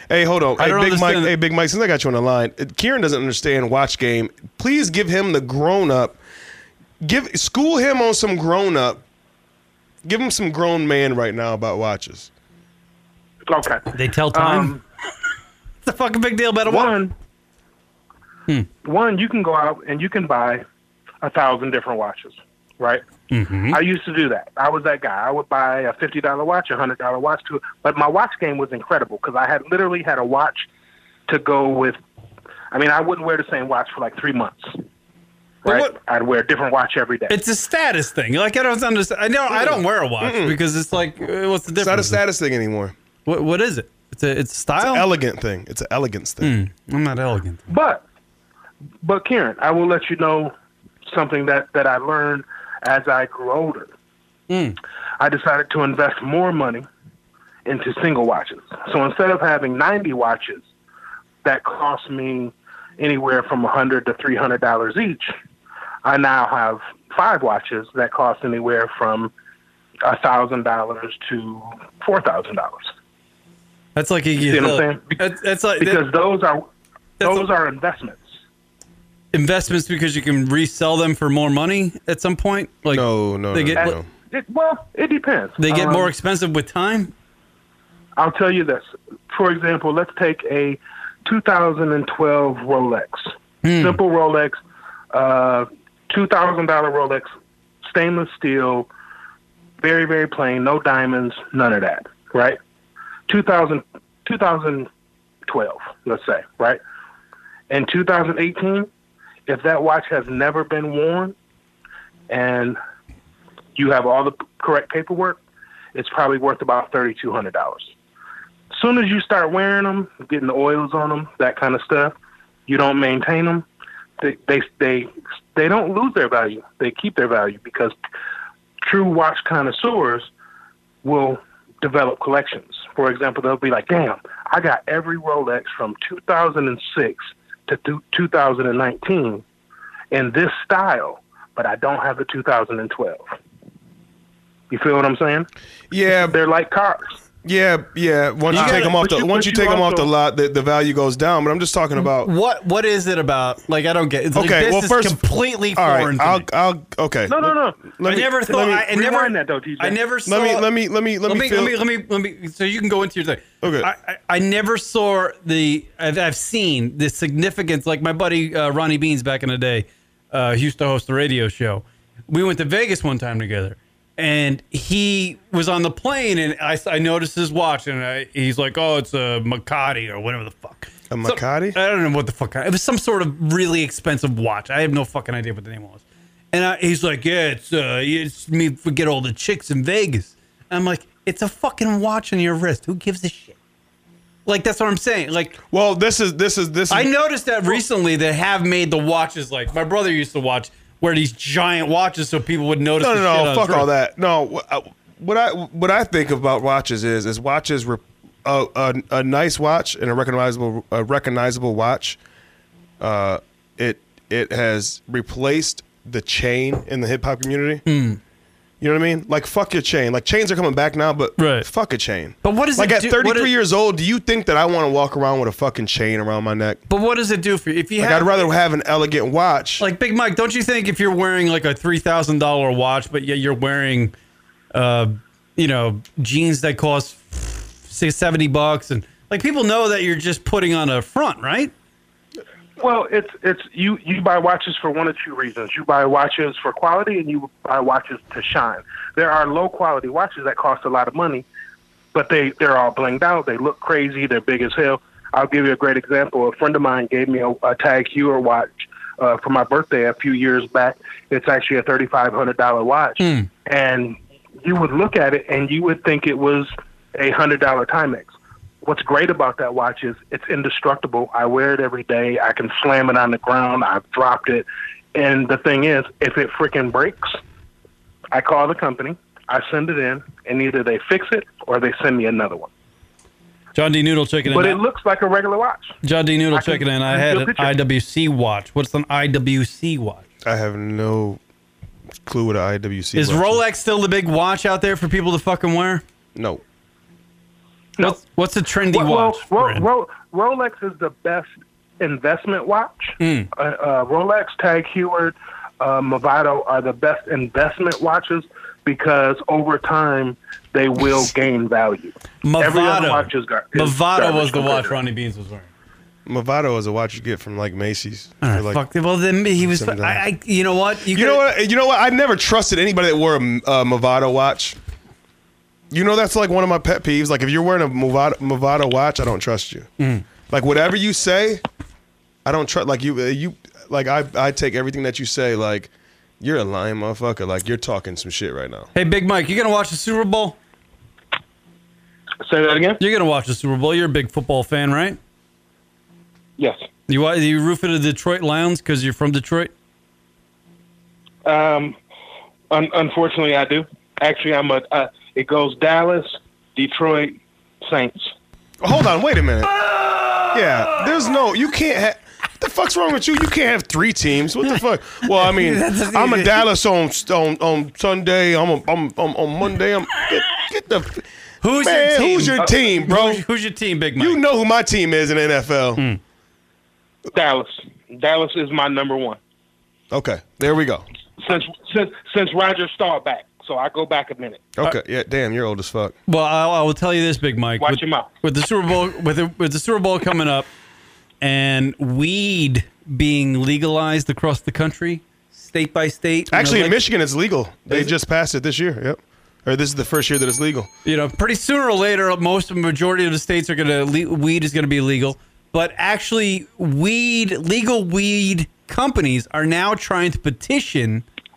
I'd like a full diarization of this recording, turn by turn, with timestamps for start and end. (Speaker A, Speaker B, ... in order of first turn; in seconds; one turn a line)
Speaker A: 0.1-6.2
Speaker B: 0.6-1.4
Speaker A: 7.0-9.0
Speaker A: 10.0-12.3
Speaker C: 13.5-14.8
Speaker B: 13.9-14.8
Speaker B: 15.8-16.9
Speaker C: 16.7-17.1
Speaker C: 18.8-20.6
Speaker C: 21.2-23.0
Speaker B: 23.3-23.8
Speaker C: 23.7-30.7
Speaker C: 31.3-32.0
Speaker C: 32.7-34.8
Speaker C: 35.6-37.4
Speaker B: 35.6-36.0
Speaker B: 37.3-42.2
Speaker A: 40.2-40.6
Speaker A: 41.7-43.0
Speaker B: 43.3-45.1
Speaker A: 44.8-46.5
Speaker B: 46.4-47.7
Speaker C: 47.7-48.0
Speaker C: 49.0-50.5
Speaker C: 51.1-53.9
Speaker B: 54.5-54.8
Speaker C: 55.2-56.9
Speaker C: 57.6-60.7
Speaker C: 61.4-65.3
Speaker C: 66.0-69.3
Speaker C: 70.0-72.9
Speaker B: 74.0-76.0
Speaker C: 74.4-75.2
Speaker C: 75.8-76.7
Speaker B: 77.2-77.5
Speaker C: 77.2-78.3
Speaker B: 79.3-84.0
Speaker A: 82.9-84.1
Speaker C: 83.8-86.1
Speaker B: 85.6-87.1
Speaker C: 88.2-94.6
Speaker B: 93.6-94.0
Speaker C: 95.1-97.3
Speaker C: 97.8-98.9
Speaker C: 99.8-102.6
Speaker C: 103.3-104.9
Speaker C: 105.5-106.8
Speaker C: 107.7-108.9
Speaker C: 109.5-111.3
Speaker C: 112.3-112.8
Speaker C: 113.8-115.4
Speaker C: 115.9-117.9
Speaker C: 118.7-122.2
Speaker C: 122.7-123.7
Speaker C: 124.2-128.0
Speaker C: 128.8-130.3
Speaker C: 131.0-139.4
Speaker C: 140.1-143.3
Speaker C: 144.7-145.5
Speaker A: 145.9-146.3
Speaker C: 146.2-147.1
Speaker A: 147.4-152.3
Speaker C: 148.5-150.1
Speaker B: 148.5-148.9
Speaker B: 152.0-156.5
Speaker A: 154.3-155.2
Speaker A: 155.7-158.8
Speaker C: 157.3-160.0
Speaker B: 158.1-160.7
Speaker A: 160.3-161.8
Speaker B: 161.3-193.6
Speaker A: 163.6-163.9
Speaker A: 181.1-181.8
Speaker B: 194.5-195.6
Speaker A: 195.7-197.1
Speaker B: 196.9-203.9
Speaker A: 203.0-212.2
Speaker A: 213.0-217.8
Speaker B: 217.9-218.2
Speaker A: 218.8-226.8
Speaker B: 221.4-221.7
Speaker B: 222.4-223.5
Speaker B: 226.9-228.5
Speaker A: 228.0-229.8
Speaker B: 229.8-234.2
Speaker B: 234.7-241.7
Speaker C: 242.8-251.5
Speaker C: 252.1-268.3
Speaker B: 263.2-263.5
Speaker C: 268.8-277.4
Speaker C: 278.3-282.7
Speaker B: 283.8-284.8
Speaker C: 284.5-286.0
Speaker B: 286.0-290.3
Speaker C: 286.5-287.7
Speaker A: 290.4-291.4
Speaker A: 292.3-293.6
Speaker B: 293.1-296.0
Speaker A: 296.4-296.6
Speaker B: 298.0-299.9
Speaker C: 298.9-315.0
Speaker B: 303.2-303.5
Speaker B: 312.4-315.7
Speaker A: 316.3-318.8
Speaker B: 318.4-321.4
Speaker A: 319.6-320.2
Speaker A: 321.1-324.8
Speaker A: 325.9-329.9
Speaker B: 330.0-330.2
Speaker A: 330.5-331.6
Speaker A: 332.4-338.9
Speaker B: 338.9-340.6
Speaker C: 342.4-343.0
Speaker B: 343.0-345.2
Speaker B: 347.1-349.7
Speaker C: 351.4-352.0
Speaker C: 352.7-358.3
Speaker A: 358.8-359.7
Speaker B: 360.2-360.9
Speaker A: 360.5-373.4
Speaker B: 365.3-366.7
Speaker B: 371.6-374.4
Speaker A: 374.2-376.1
Speaker C: 377.3-379.4
Speaker A: 380.1-381.1
Speaker C: 381.4-384.7
Speaker A: 384.8-386.2
Speaker B: 386.3-390.7
Speaker C: 387.8-388.3
Speaker B: 391.4-397.0
Speaker A: 396.5-400.9
Speaker B: 401.1-411.2